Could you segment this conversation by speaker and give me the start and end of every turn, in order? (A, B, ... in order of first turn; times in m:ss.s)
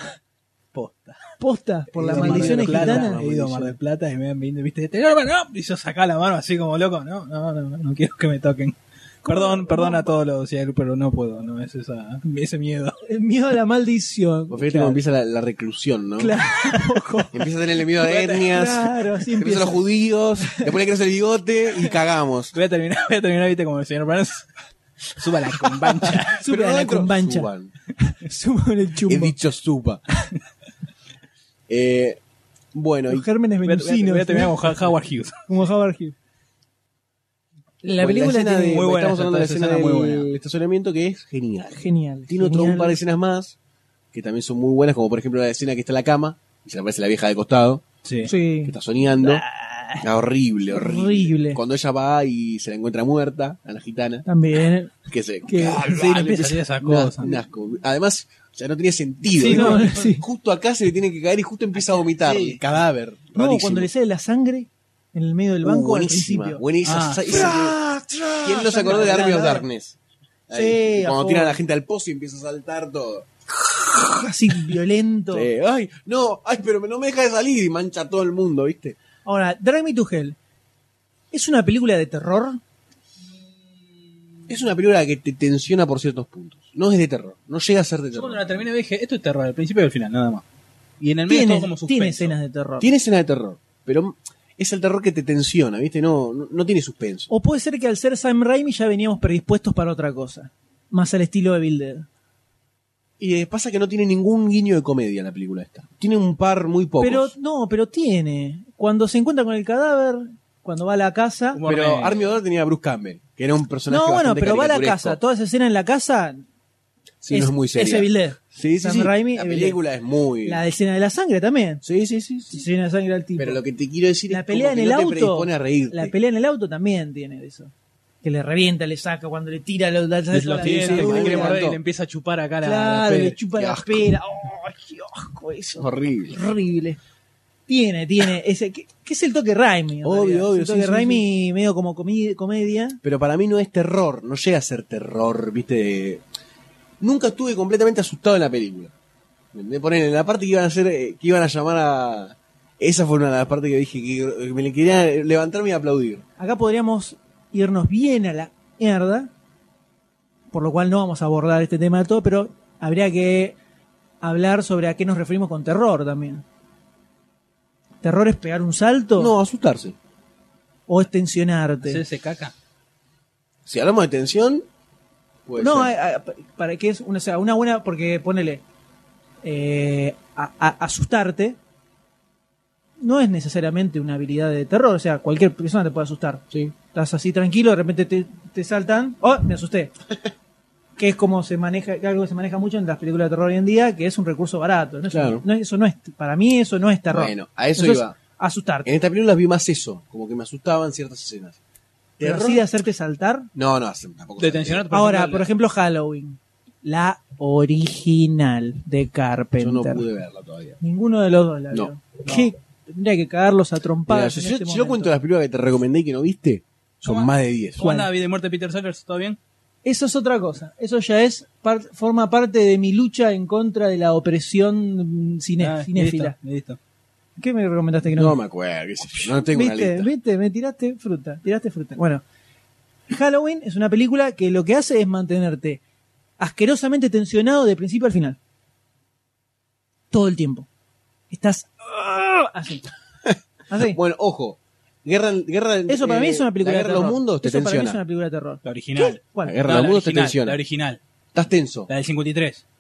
0:00.7-0:01.3 A
0:01.4-0:03.2 B
0:01.9-0:03.8 C
0:02.0-0:13.0 A
0:09.2-0:10.2 B
0:13.0-0:15.0 B
0:14.5-0:16.4 C
0:16.2-0:17.5 B
0:17.3-0:22.6 C
0:18.0-0:18.5 A
0:18.2-0:19.8 B
0:20.4-0:20.7 B
0:22.5-0:24.5 A
0:25.2-0:26.4 A
0:25.7-0:27.7 C
0:26.3-0:29.4 B
0:29.1-0:30.0 C
0:31.7-0:32.2 C
0:32.7-0:33.3 C
0:33.1-0:34.6 B
0:33.6-0:35.5 A
0:35.5-0:36.2 B
0:37.8-0:38.8 B
0:38.0-0:43.6 C
0:38.5-0:40.3 A
0:41.7-0:43.0 B
0:44.1-0:47.8 C
0:48.0-0:48.3 A
0:48.2-0:50.1 B
0:48.6-0:49.4 C
0:50.0-0:54.3 C
0:50.7-0:51.6 B
0:54.3-0:54.9 B
0:55.0-1:03.9 C
0:55.5-0:56.1 B
0:55.8-0:57.4 A
0:59.4-1:00.1 A
0:59.4-1:00.2 B
1:01.9-1:02.6 A
1:03.4-1:06.6 B
1:05.6-1:07.8 C
1:06.8-1:07.6 A
1:07.3-1:09.7 B
1:08.4-1:10.0 C
1:10.5-1:14.7 C
1:10.5-1:11.6 B
1:14.1-1:15.5 B
1:15.3-1:19.0 C
1:19.2-1:20.4 B
1:21.3-1:22.6 B
1:24.5-1:28.6 C
1:28.1-1:30.4 A
1:31.0-1:32.4 A
1:31.3-1:32.9 B
1:32.8-1:37.3 C
1:37.3-1:42.1 B
1:43.2-1:47.3 C
1:47.0-1:51.6 B
1:51.6-1:52.2 A
1:51.7-1:55.2 C
1:53.9-1:56.4 B
1:57.2-2:00.6 C
1:57.3-1:59.8 B
2:00.4-2:01.8 B
2:01.8-2:02.7 C
2:02.5-2:03.6 B
2:03.4-2:06.1 C
2:04.3-2:07.7 B
2:08.2-2:11.6 B
2:10.3-2:13.4 A
2:10.6-2:11.8 C
2:12.6-2:17.0 B
2:13.6-2:14.2 C
2:15.8-2:16.4 C
2:17.7-2:23.0 B
2:20.0-2:21.3 C
2:23.0-2:26.2 C
2:27.0-2:28.9 C
2:29.5-2:36.2 C
2:36.4-2:39.3 B
2:40.5-2:43.6 B
2:44.2-2:46.4 B
2:48.0-2:49.4 B
2:49.2-2:50.0 C
2:50.9-2:52.0 B
2:51.8-2:52.5 A
2:53.7-2:54.6 C
2:55.5-2:55.9 C
2:55.6-2:58.6 B
2:59.4-3:01.6 B
3:03.0-3:09.9 B
3:11.0-3:18.9 B
3:15.1-3:15.4 C
3:17.1-3:18.2 C
3:18.8-3:21.6 C
3:22.2-3:22.6 C
3:22.2-3:23.5 B
3:23.6-3:24.8 C
3:24.4-3:25.5 A
3:24.9-3:30.0 B
3:29.6-3:30.8 C
3:30.8-3:35.1 B
3:34.1-3:37.9 C
3:37.0-3:39.4 A
3:37.8-3:38.1 B
3:39.8-3:46.4 B
3:45.6-3:46.8 A
3:47.4-3:48.4 B
3:48.1-3:50.1 C
3:49.3-3:52.2 B
3:53.1-3:55.8 B
3:56.4-3:58.4 B
4:00.1-4:00.7 B
4:01.3-4:02.8 B
4:03.3-4:08.0 C
4:03.7-4:04.0 B
4:05.9-4:09.6 B
4:08.6-4:11.0 A
4:09.4-4:10.6 C
4:11.3-4:11.9 C
4:11.9-4:12.6 A